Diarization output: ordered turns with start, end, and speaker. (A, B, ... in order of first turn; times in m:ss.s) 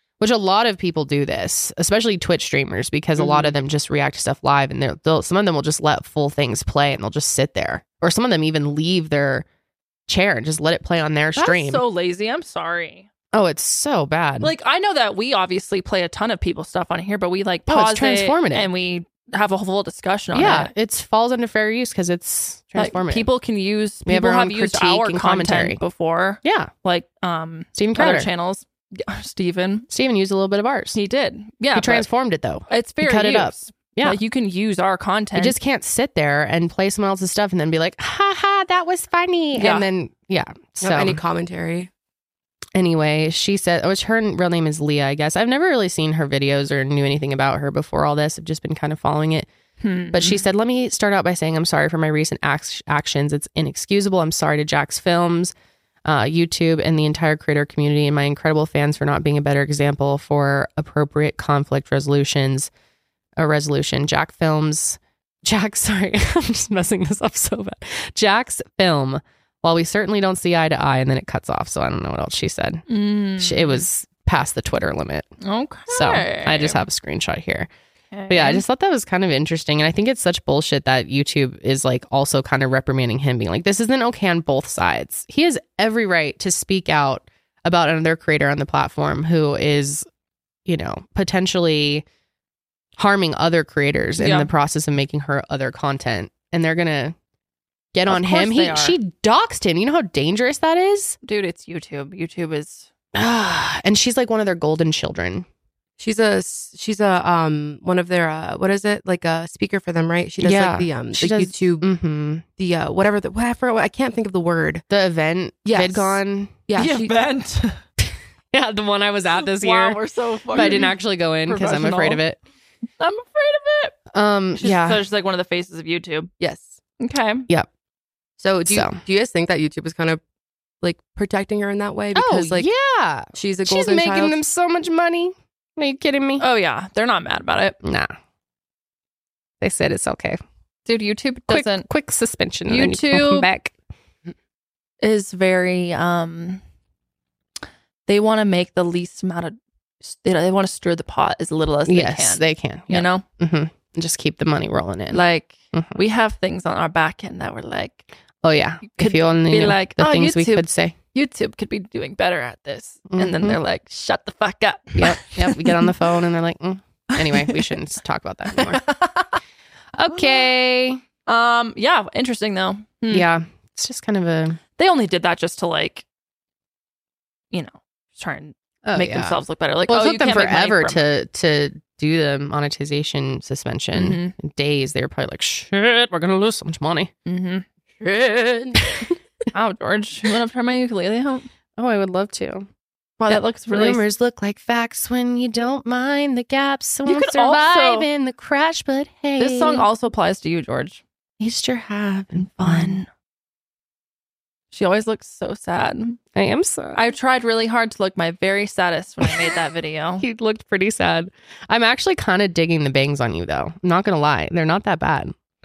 0:00.2-0:09.4 A
0:03.2-0:03.5 B
0:10.1-0:11.8 A
0:11.4-0:13.1 C
0:13.3-0:14.5 A
0:14.4-0:20.7 C
0:17.7-0:18.7 A
0:20.3-0:23.3 A
0:22.8-0:29.9 C
0:24.0-0:25.8 A
0:26.4-0:26.7 A
0:27.7-0:28.3 A
0:29.9-0:31.0 A
0:30.9-0:32.1 C
0:31.7-0:34.2 A
0:32.7-0:35.6 C
0:35.4-0:41.2 A
0:39.6-0:39.8 C
0:40.8-0:41.9 B
0:42.7-0:49.5 A
0:49.8-0:50.4 C
0:50.1-0:55.5 A
0:56.0-1:02.7 A
1:03.4-1:12.8 A
1:12.9-1:13.8 C
1:13.4-1:15.3 A
1:15.4-1:16.8 C
1:15.9-1:17.7 A
1:18.1-1:18.6 C
1:18.3-1:30.0 A
1:30.6-1:32.0 A
1:33.0-1:37.1 A
1:34.2-1:34.5 C
1:37.9-1:41.2 A
1:38.1-1:39.0 C
1:41.2-1:42.9 C
1:43.1-1:45.4 A
1:46.0-1:51.9 B
1:50.4-1:52.4 A
1:52.6-1:54.8 B
1:54.9-1:56.5 A
1:55.6-1:57.1 B
1:56.8-1:57.8 C
1:58.5-2:00.0 A
1:59.4-2:02.2 C
2:00.5-2:02.4 A
2:03.0-2:04.0 C
2:04.1-2:05.0 A
2:04.6-2:06.3 C
2:06.4-2:06.8 B
2:07.0-2:07.4 C
2:08.4-2:10.2 B
2:08.7-2:09.0 A
2:10.8-2:12.7 B
2:12.1-2:16.4 A
2:13.3-2:14.4 B
2:16.4-2:17.8 C
2:17.8-2:18.1 A
2:19.6-2:20.4 A
2:20.9-2:21.9 C
2:21.5-2:23.7 A
2:22.7-2:23.5 C
2:25.0-2:26.6 C
2:28.1-2:33.2 C
2:31.9-2:35.2 A
2:35.1-2:38.0 C
2:35.7-2:36.0 A
2:38.4-2:40.9 A
2:38.8-2:45.9 C
2:43.1-2:43.6 A
2:45.0-2:48.8 A
2:47.2-2:47.7 C
2:48.5-2:49.4 C
2:49.9-2:51.0 A
2:50.1-2:50.5 C
2:51.3-2:53.3 C
2:53.1-2:54.6 A
2:54.8-2:56.0 C
2:57.5-3:01.0 C
2:58.8-3:07.1 A
3:03.9-3:04.3 C
3:07.2-3:07.6 C
3:08.0-3:08.8 B
3:09.5-3:11.5 C
3:11.8-3:12.7 A
3:13.2-3:19.8 A
3:13.3-3:14.0 C
3:17.0-3:18.1 C
3:19.4-3:21.0 C
3:21.4-3:23.0 A
3:22.4-3:23.1 C
3:24.7-3:26.2 C
3:26.3-3:27.0 A
3:26.9-3:30.2 C
3:30.2-3:35.3 A